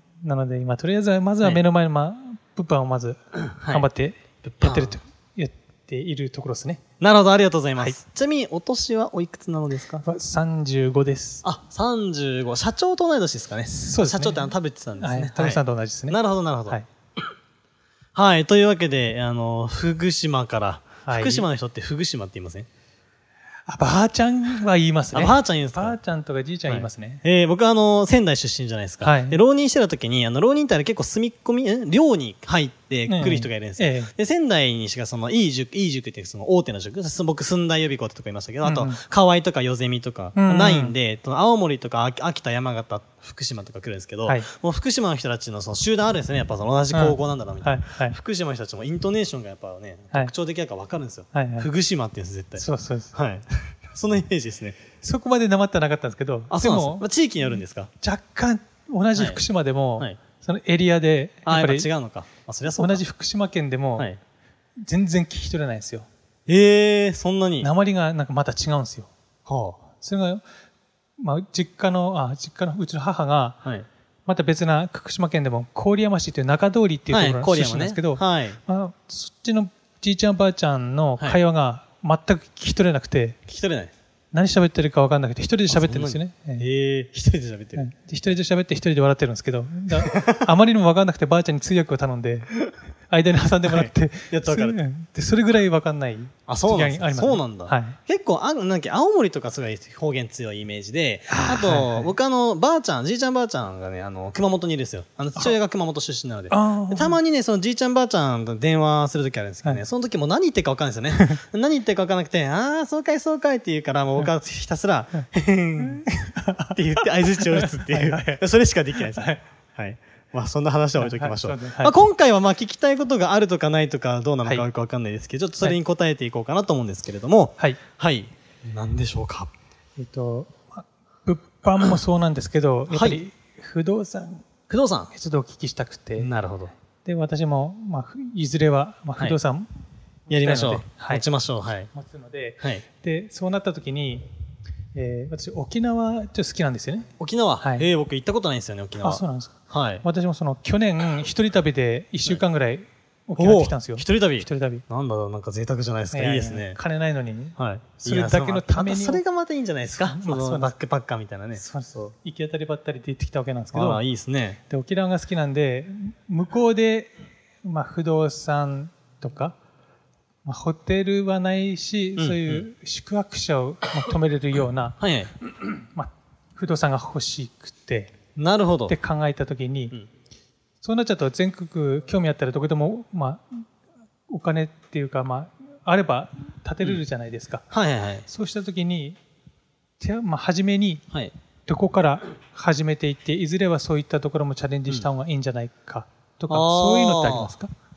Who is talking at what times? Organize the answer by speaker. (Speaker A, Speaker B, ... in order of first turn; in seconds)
Speaker A: 0.2-6.8, 10.0-11.4, 13.7-16.9, 21.0-21.5, 23.6-27.2, 29.0-29.4, 33.1-34.1, 38.6-39.0, 40.3-41.0, 46.9-48.1, 51.3-51.7, 52.5-53.1, 55.0-57.0, 58.0-61.9, 62.8-64.1, 64.8-66.1, 67.6-69.1, 69.9-70.4, 71.2-73.6, 74.2-83.4, 84.3-86.7, 87.7-92.5, 93.1-98.0, 101.3-102.1, 106.5-107.2, 115.8-119.4, 121.0-122.0, 130.0-134.5, 135.1-136.3, 137.0-139.7, 140.3-141.2, 141.9-144.3, 144.9-147.1, 147.6-147.9, 149.0-154.8, 156.1-159.2, 159.8-160.7, 161.6-164.0, 164.7-167.1, 167.6-169.6, 170.4-175.0, 175.8-178.1, 178.9-179.9, 180.8-183.7, 184.3-187.7, 188.2-189.2, 190.0-191.0, 191.7-197.7
Speaker B: 3.4-3.9, 4.4-5.0, 7.0-10.0, 11.4-16.8, 18.1-22.7, 25.1-26.0, 26.6-54.8, 56.5-57.9, 59.1-59.4, 61.5-63.0, 66.5-67.7, 69.5-69.8, 77.1-78.6, 83.5-83.9, 85.7-87.9, 90.0-90.4, 93.7-94.8, 96.5-116.0, 116.7-129.5, 132.9-133.2, 134.7-135.1, 136.2-136.7, 140.3-141.9, 147.2-150.1, 153.3-156.8, 157.6-162.1, 163.7-164.6, 172.2-172.7, 175.0-175.3, 178.3-179.0, 187.7-188.3, 196.5-197.5